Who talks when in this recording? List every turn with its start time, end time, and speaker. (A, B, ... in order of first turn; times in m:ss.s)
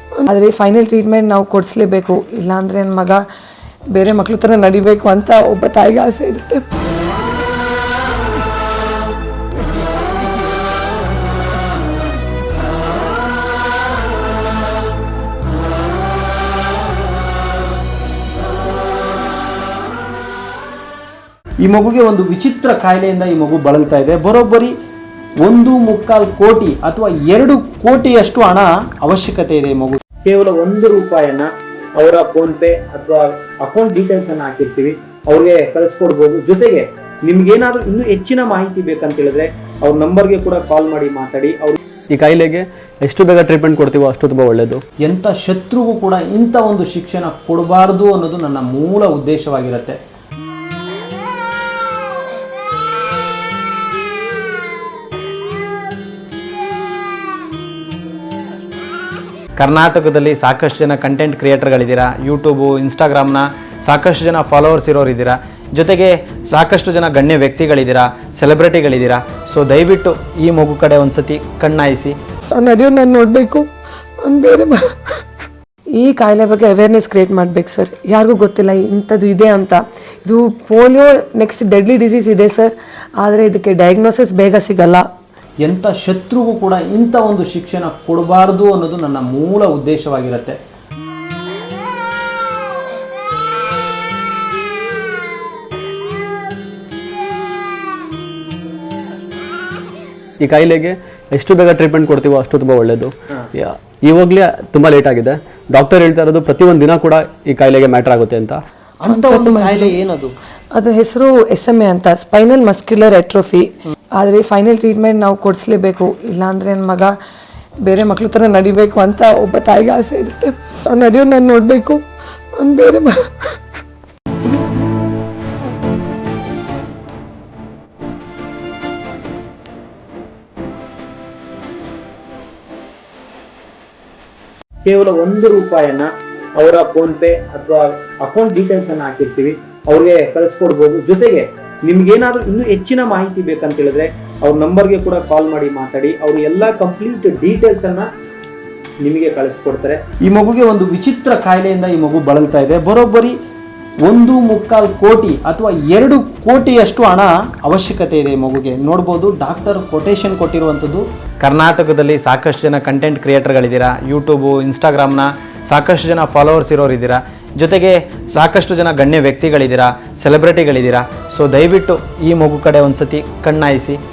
0:00.2-0:03.2 A
0:03.9-0:06.6 A
0:21.6-0:24.7 B
0:25.4-0:41.8 B
0:42.1-0:44.8 C
0:45.0-0:50.0 B
0:59.6-1:12.1 B
1:12.5-1:13.7 A
1:14.2-1:15.2 A
1:16.0-1:25.0 A
1:25.6-1:30.6 B
1:40.4-1:48.6 C
1:49.0-1:50.3 B
1:49.0-1:50.0 A
1:50.7-1:57.1 A
1:57.8-2:02.0 A
2:02.5-2:03.6 A
2:14.8-2:28.1 B
2:29.0-2:33.3 B
2:34.1-2:54.0 B